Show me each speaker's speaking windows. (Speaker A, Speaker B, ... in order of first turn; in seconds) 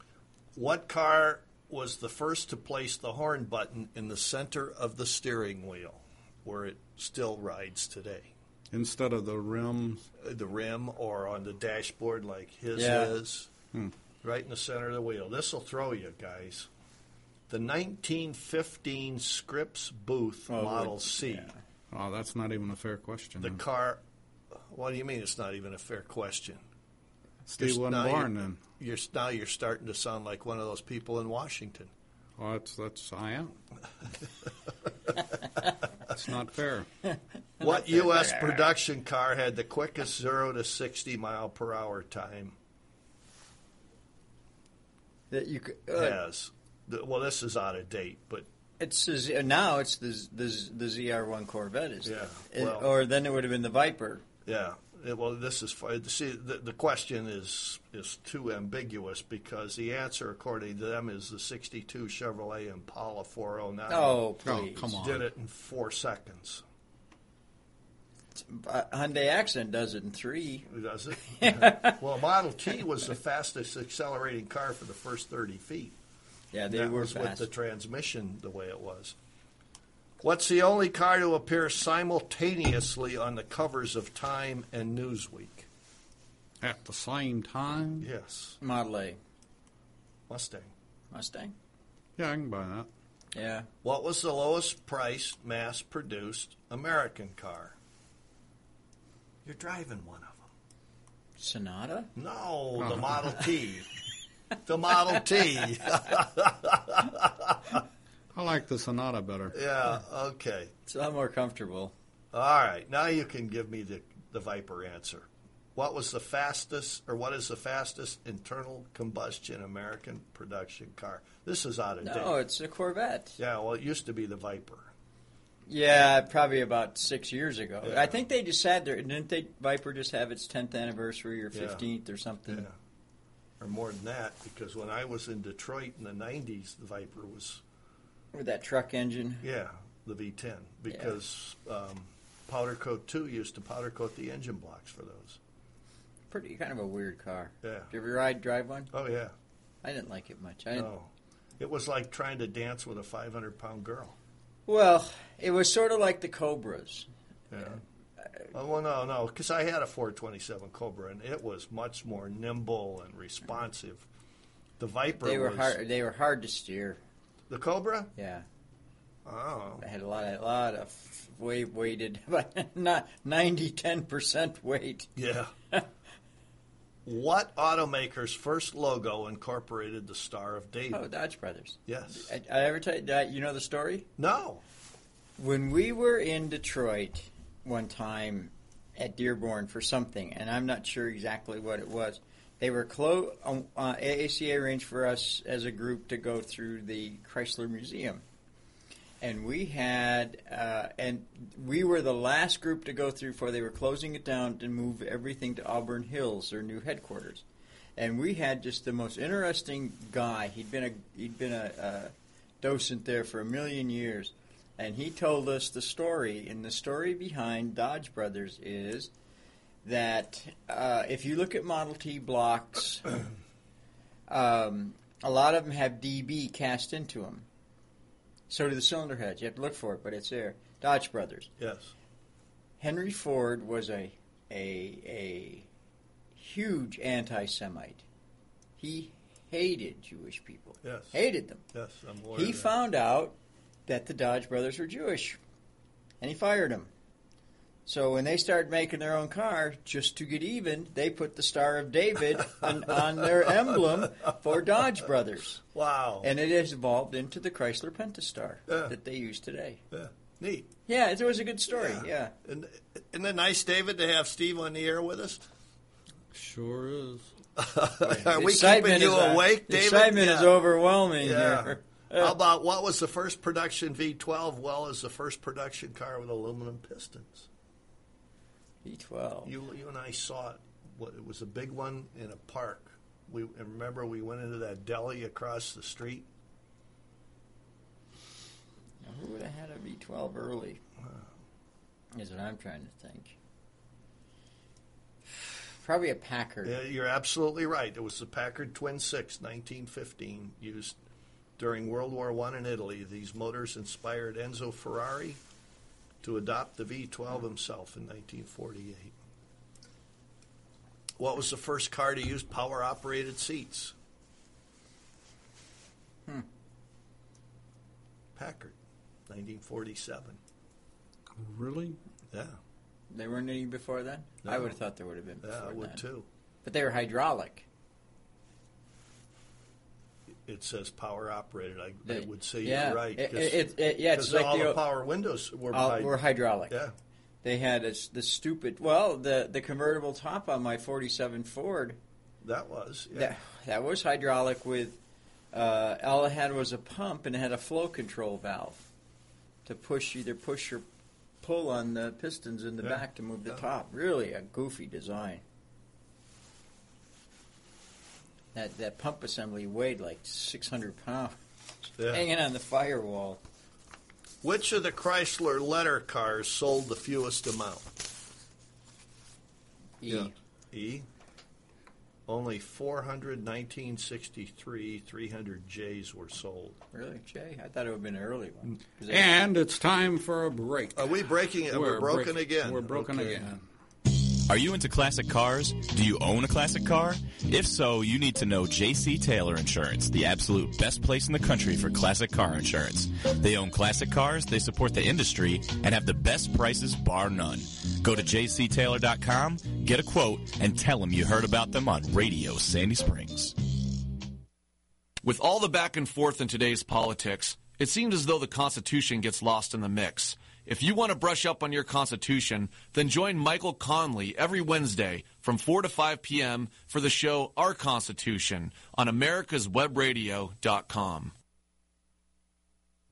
Speaker A: 0.6-8.3, 10.2-13.5, 14.2-16.7, 17.5-21.5, 23.4-24.0, 24.7-26.6, 27.6-31.9, 37.6-42.5, 45.9-48.5, 52.0-52.9, 54.5-64.2, 65.0-66.6, 70.7-75.9, 76.7-79.1, 80.2-85.7, 88.0-88.6, 90.3-90.7, 93.8-97.8, 99.4-100.4, 102.2-103.9, 104.7-107.8, 109.5-110.7, 112.3-122.3, 123.4-124.9, 127.8-128.2, 131.5-131.8, 132.5-132.7, 133.6-137.6, 139.4-145.4, 147.6-147.9, 148.9-149.3, 150.7-151.1, 151.6-154.2, 157.5-157.8, 158.5-164.0, 164.8-165.8, 167.5-168.1, 169.2-169.8, 175.2-175.5, 177.1-181.0, 181.9-182.3, 184.2-184.6, 231.6-231.9, 240.8-241.1, 241.7-242.7, 255.7-256.3, 258.7-258.9, 259.9-260.7, 261.7-265.4, 267.6-270.6, 271.2-277.5, 279.4-286.3, 296.6-300.9, 301.6-305.4, 306.2-309.1, 311.2-313.9, 318.4-318.7, 319.3-320.4, 322.3-322.6, 324.4-324.7, 325.4-326.3, 330.4-336.9, 342.4-343.3, 352.8-353.6, 362.0-362.2, 364.4-367.9, 370.1-371.1, 372.3-376.8, 380.9-383.5
Speaker B: 8.7-10.0, 21.9-23.6, 27.4-28.6, 32.4-33.5, 36.1-36.9, 64.4-65.2, 86.6-88.1, 92.2-92.9, 102.8-103.4, 108.3-109.5, 266.3-267.3, 321.4-322.0, 379.1-381.1, 381.7-383.6
Speaker C: 12.7-13.1, 20.5-21.6, 37.1-38.7, 45.3-46.2, 48.8-54.2, 63.9-64.9, 68.3-70.7, 71.3-72.0, 76.5-77.5, 88.6-89.2, 91.1-91.5, 93.3-93.7, 101.4-102.1, 110.9-111.9, 122.0-123.4, 125.7-132.7, 138.3-139.4, 140.9-141.1, 146.3-148.9, 149.8-150.9, 154.7-157.1, 165.2-167.0, 168.2-168.4, 169.8-175.1, 180.9-184.1, 185.4-198.2, 199.2-207.4, 208.0-219.1, 219.8-223.2, 224.3-227.4, 228.5-231.5, 232.8-235.7, 236.3-238.0, 238.8-241.6, 242.3-243.3, 243.9-245.4, 246.2-246.9, 247.8-255.6, 256.2-259.8, 260.9-262.3, 268.1-272.3, 278.8-279.5, 289.0-290.8, 292.1-293.3, 295.4-296.8, 323.1-326.0, 326.6-327.6, 332.1-334.8, 335.7-336.8, 337.4-342.0, 343.1-345.0, 345.5-348.8, 349.6-350.9, 351.4-355.4, 358.5-361.4, 361.9-363.4, 370.0-370.3, 376.9-379.3
Speaker D: 384.1-403.6
Speaker E: 405.2-421.3